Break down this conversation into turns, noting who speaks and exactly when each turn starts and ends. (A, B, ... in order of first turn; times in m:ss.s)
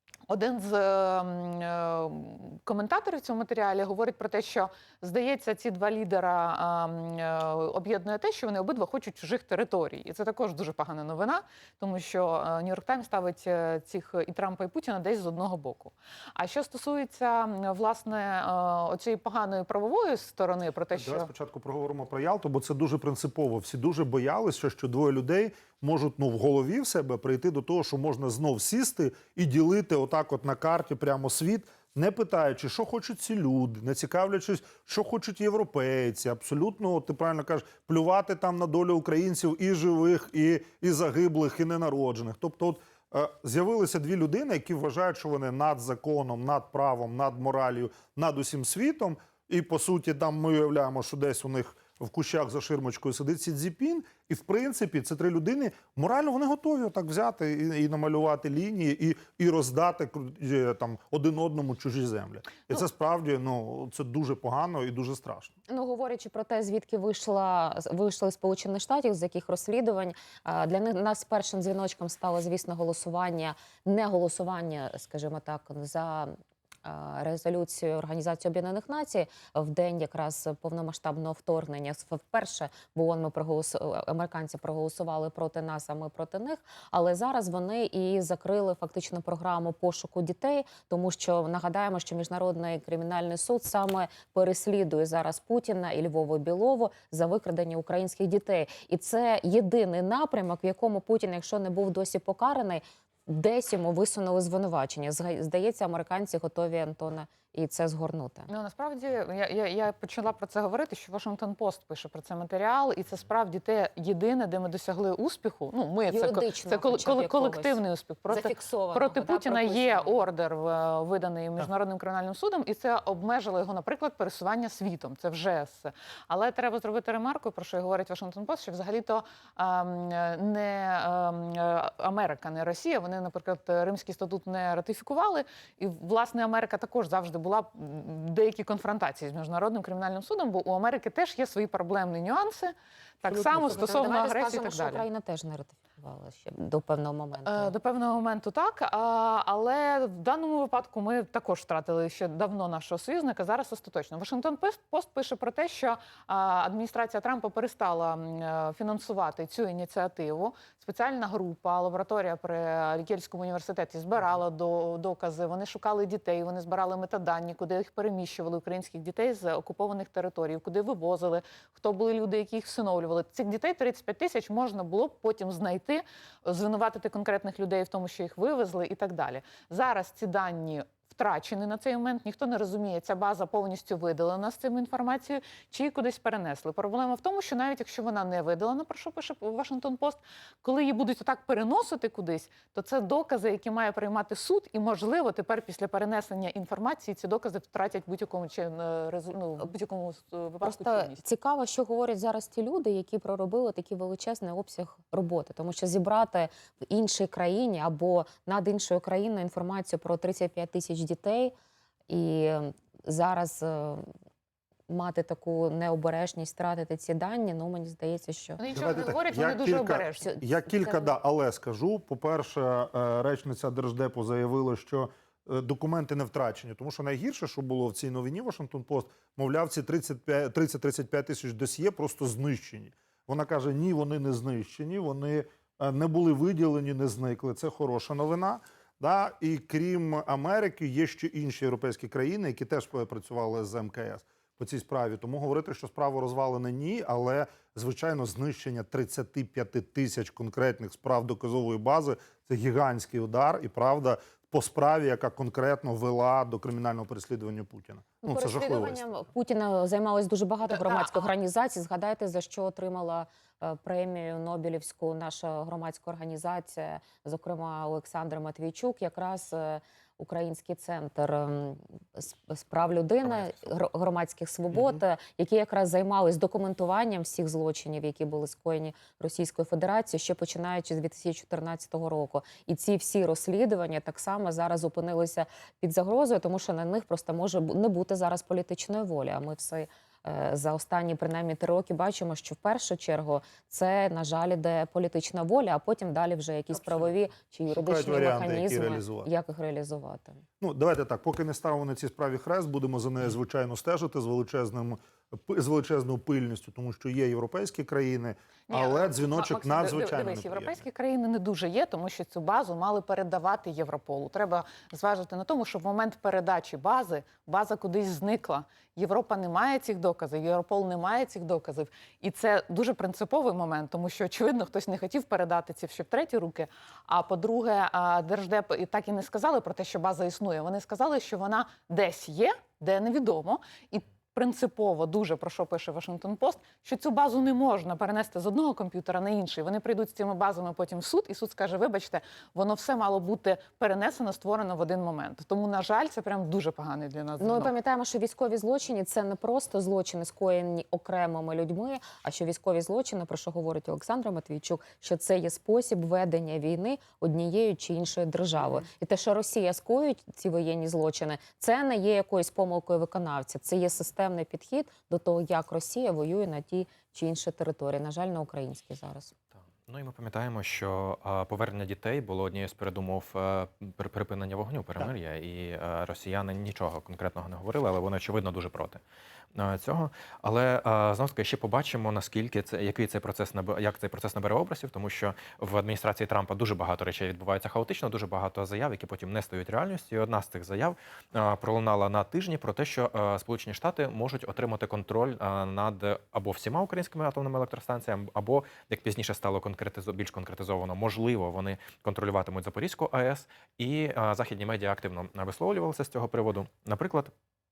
0:00.3-0:21.3 A
0:20.9-1:05.6 B
1:05.7-1:16.3 C
1:16.8-1:48.5 C
1:48.5-2:25.0 A
1:56.1-1:57.8 C
1:58.3-2:00.2 C
2:23.3-2:27.7 C
2:27.4-3:21.2 A
3:20.6-3:31.5 C
3:32.1-3:34.1 C
3:34.9-3:38.6 C
3:38.6-3:40.3 A
3:38.7-4:19.0 B
3:40.2-3:41.1 C
4:18.2-5:00.4 C
4:20.7-4:21.2 A
4:33.2-4:33.7 D
4:56.7-4:57.1 B
4:57.7-4:59.3 B
5:00.6-5:10.8 B
5:08.7-5:47.7 A
5:47.4-6:09.3 C
6:09.6-6:19.0 D
6:19.6-6:47.3 D